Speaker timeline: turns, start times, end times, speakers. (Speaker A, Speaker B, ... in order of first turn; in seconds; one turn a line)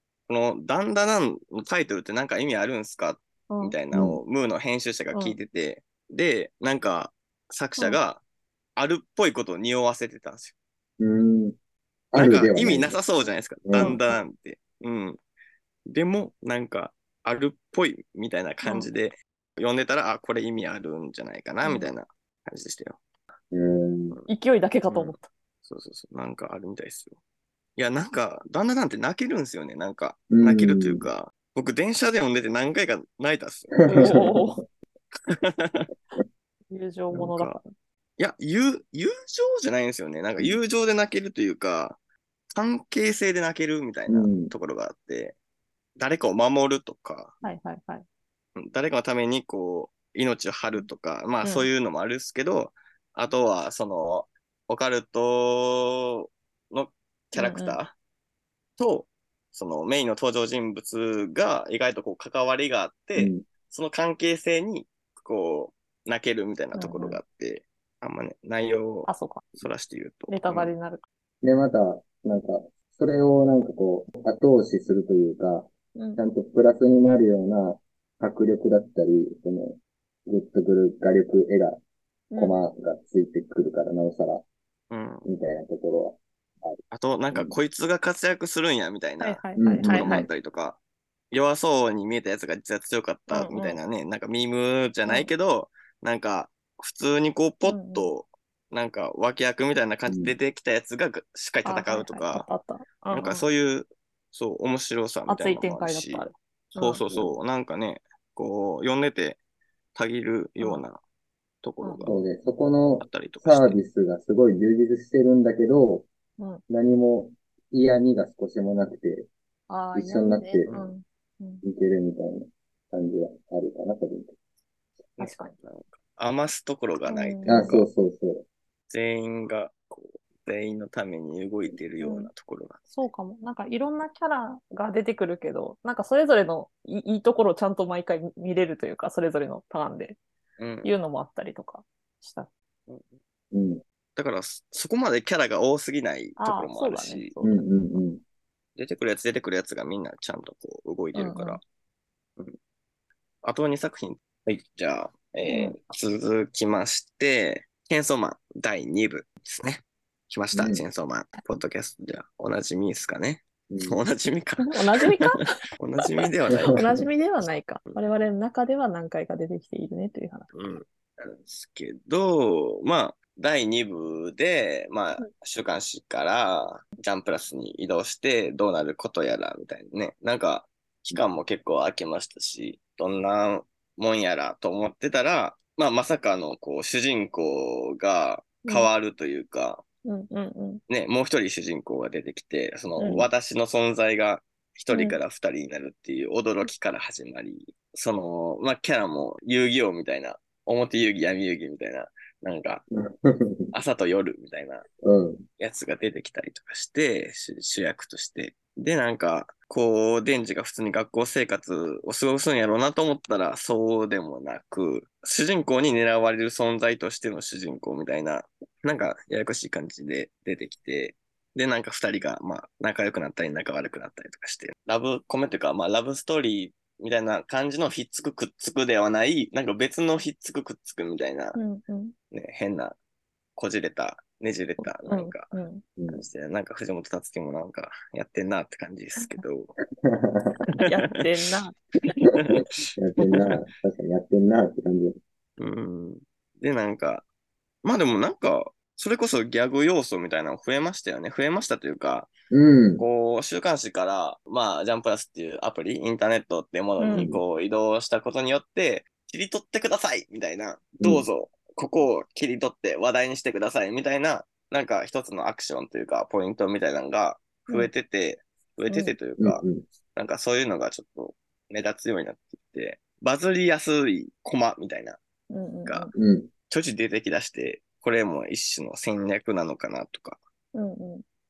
Speaker A: 0.3-8.2
Speaker B: 3.5-3.7
Speaker C: 3.9-4.2
Speaker A: 8.8-10.5
Speaker C: 11.0-11.6
Speaker C: 12.1-13.0
Speaker A: 12.1-15.2
Speaker C: 13.6-14.0
Speaker B: 13.8-14.2
Speaker A: 15.9-23.0
Speaker B: 18.6-18.9
Speaker B: 21.6-21.9
Speaker C: 23.5-24.2
Speaker B: 24.3-25.3
Speaker A: 24.9-27.2
Speaker A: 27.8-34.3
Speaker C: 30.3-31.1
Speaker C: 33.8-34.4
Speaker B: 33.9-34.6
Speaker A: 35.1-35.9
Speaker B: 36.7-37.7
Speaker A: 37.1-37.6
Speaker A: 38.2-42.0
Speaker A: 42.5-45.4
Speaker C: 44.1-44.5
Speaker A: 46.0-47.4
Speaker B: 47.4-48.0
Speaker A: 48.5-57.9
Speaker B: 51.4-51.7
Speaker B: 57.3-57.8
Speaker A: 58.8-70.7
Speaker C: 63.1-63.5
Speaker B: 66.7-67.2
Speaker B: 69.1-69.4
Speaker B: 70.3-71.0
Speaker C: 71.4-81.8
Speaker B: 76.0-76.2
Speaker B: 82.3-82.6
Speaker C: 82.4-84.4
Speaker A: 84.9-85.2
Speaker C: 85.2-86.8
Speaker A: 86.9-90.8
Speaker C: 87.3-87.5
Speaker B: 89.2-90.3
Speaker C: 89.6-90.3
Speaker A: 91.3-102.5
Speaker B: 93.3-93.8
Speaker B: 97.6-98.1
Speaker C: 100.1-100.3
Speaker B: 101.6-103.5
Speaker A: 103.1-109.4
Speaker B: 105.3-107.0
Speaker A: 109.9-111.0
Speaker A: 111.6-112.2
Speaker C: 112.0-116.1
Speaker A: 113.0-113.8
Speaker C: 116.7-119.3
Speaker B: 119.7-121.6
Speaker C: 119.9-120.7
Speaker C: 121.6-124.3
Speaker A: 125.2-127.9
Speaker B: 125.2-125.5
Speaker B: 127.1-127.7
Speaker C: 127.5-128.4
Speaker A: 128.9-133.1
Speaker B: 132.0-132.3
Speaker B: 132.9-140.2
Speaker A: 140.6-140.9
Speaker B: 140.8-142.5
Speaker A: 142.9-143.2
Speaker C: 143.5-143.8
Speaker A: 144.2-147.3
Speaker B: 146.4-147.6
Speaker C: 147.4-148.2
Speaker A: 148.8-151.6
Speaker B: 151.1-151.6
Speaker A: 153.4-167.0
Speaker B: 155.5-155.8
Speaker C: 160.5-160.8
Speaker C: 163.7-164.0
Speaker B: 164.6-165.5
Speaker C: 166.5-167.1
Speaker B: 166.7-170.5
Speaker A: 170.5-189.8
Speaker B: 188.6-188.9
Speaker B: 190.0-190.8
Speaker A: 190.9-202.8
Speaker B: 193.0-193.3
Speaker B: 194.9-195.2
Speaker C: 202.9-203.7
Speaker A: 203.7-204.9
Speaker C: 205.0-205.4
Speaker A: 205.6-231.6
Speaker B: 231.5-232.1
Speaker A: 232.3-233.0
Speaker A: 233.6-235.5
Speaker B: 234.8-235.8
Speaker C: 236.0-236.2
Speaker A: 236.1-239.7
Speaker B: 239.2-239.4
Speaker C: 240.0-240.6
Speaker B: 240.7-242.2
Speaker A: 242.3-242.7
Speaker C: 243.0-245.2
Speaker A: 243.2-243.6
Speaker A: 245.6-247.2
Speaker A: 247.8-252.3
Speaker C: 252.5-253.0
Speaker A: 253.0-275.2
Speaker B: 257.0-257.3
Speaker C: 257.1-257.4
Speaker C: 261.0-261.2
Speaker B: 268.9-269.1
Speaker C: 269.4-269.8
Speaker B: 275.5-276.1
Speaker C: 276.1-276.5
Speaker A: 276.7-280.4
Speaker B: 280.7-281.2